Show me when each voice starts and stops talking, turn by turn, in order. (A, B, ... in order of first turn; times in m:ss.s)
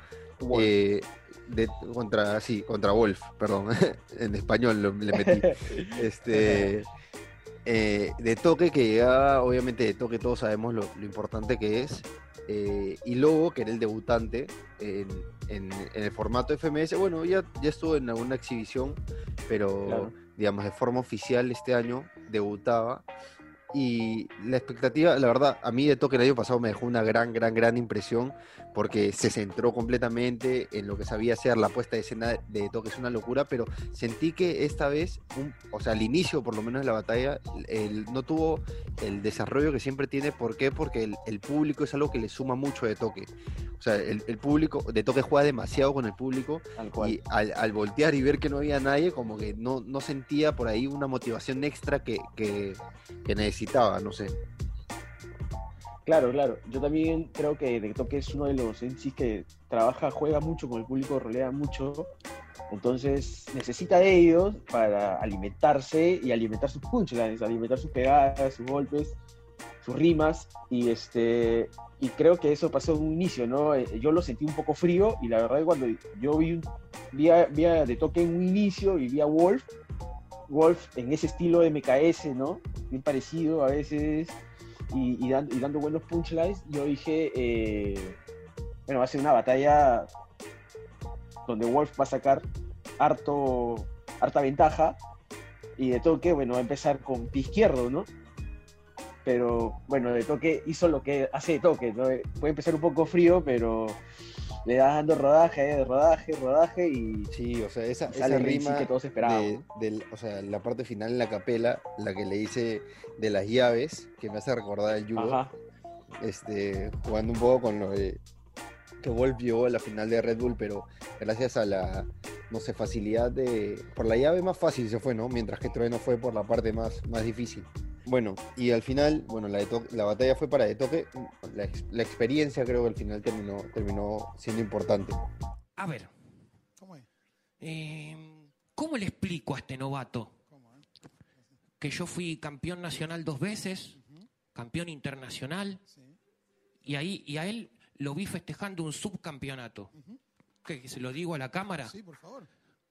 0:00.4-0:00.7 A
0:00.5-0:06.9 B
0:05.1-0:06.7 A
0:07.6-0:23.0 B
0:19.8-0:20.1 A
0:23.7-0:54.3 B
0:46.8-0:47.2 A
0:56.0-1:02.1 A
1:02.7-1:09.2 A
1:09.8-1:19.7 A
1:20.5-1:24.4 A
1:24.9-1:28.2 A
1:28.9-1:30.1 A
1:31.4-1:32.5 A
1:33.0-1:35.0 A
1:35.8-1:38.1 A
1:39.2-1:44.0 A
1:44.6-1:47.3 A
1:47.3-1:55.4 B
1:48.1-1:49.6 A
1:55.2-1:55.5 A
1:56.2-1:58.2 B
1:59.0-2:15.2 B
2:15.8-2:16.1 C
2:16.8-2:17.1 D
2:17.6-2:20.3 C
2:20.5-2:20.8 D
2:21.8-2:24.0 C
2:24.0-2:24.3 D
2:24.5-2:25.8 C
2:25.9-2:26.2 D
2:26.8-2:29.9 C
2:30.6-2:31.9 C
2:31.8-2:32.5 D